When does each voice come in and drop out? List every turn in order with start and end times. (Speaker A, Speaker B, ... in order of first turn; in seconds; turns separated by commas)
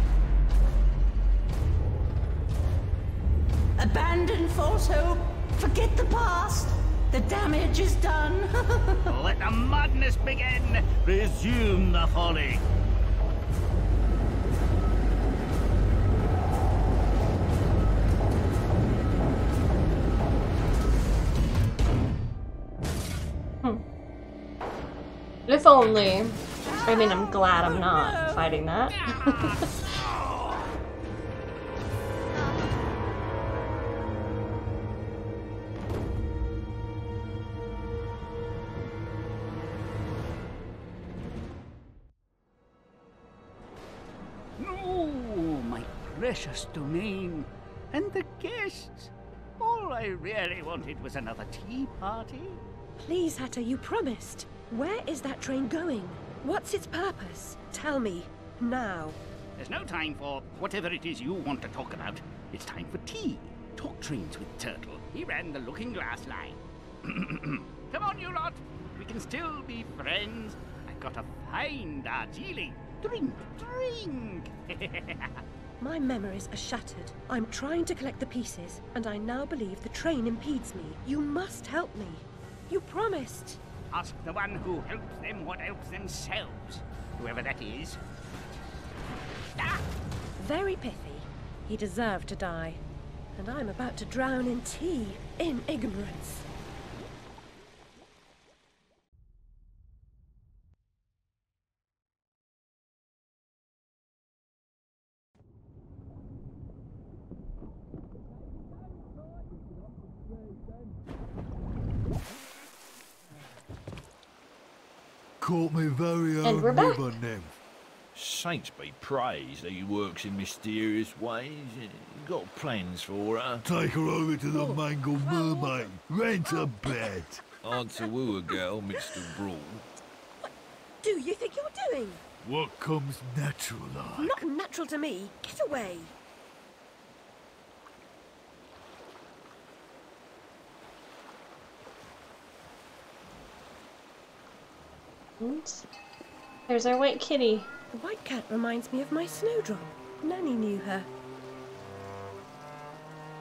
Speaker A: 3.8-9.1, Speaker B: 9.1-12.6, Speaker C: 25.5-29.9, Speaker A: 26.9-27.1, Speaker B: 27.6-28.3, Speaker A: 28.0-28.6, Speaker B: 28.9-30.6, Speaker B: 44.6-52.6, Speaker D: 53.0-59.2, Speaker B: 59.6-75.4, Speaker D: 75.8-83.6, Speaker B: 83.9-88.0, Speaker D: 90.4-92.8, Speaker D: 93.3-96.5, Speaker E: 115.4-117.5, Speaker C: 116.4-117.2, Speaker F: 118.1-123.6, Speaker E: 123.6-127.8, Speaker D: 124.5-125.9, Speaker D: 126.4-127.2, Speaker F: 127.6-129.8, Speaker D: 128.9-129.4, Speaker D: 131.0-132.2, Speaker E: 132.4-134.4, Speaker D: 134.2-136.1, Speaker C: 145.4-145.8, Speaker C: 146.7-147.7, Speaker D: 147.9-151.1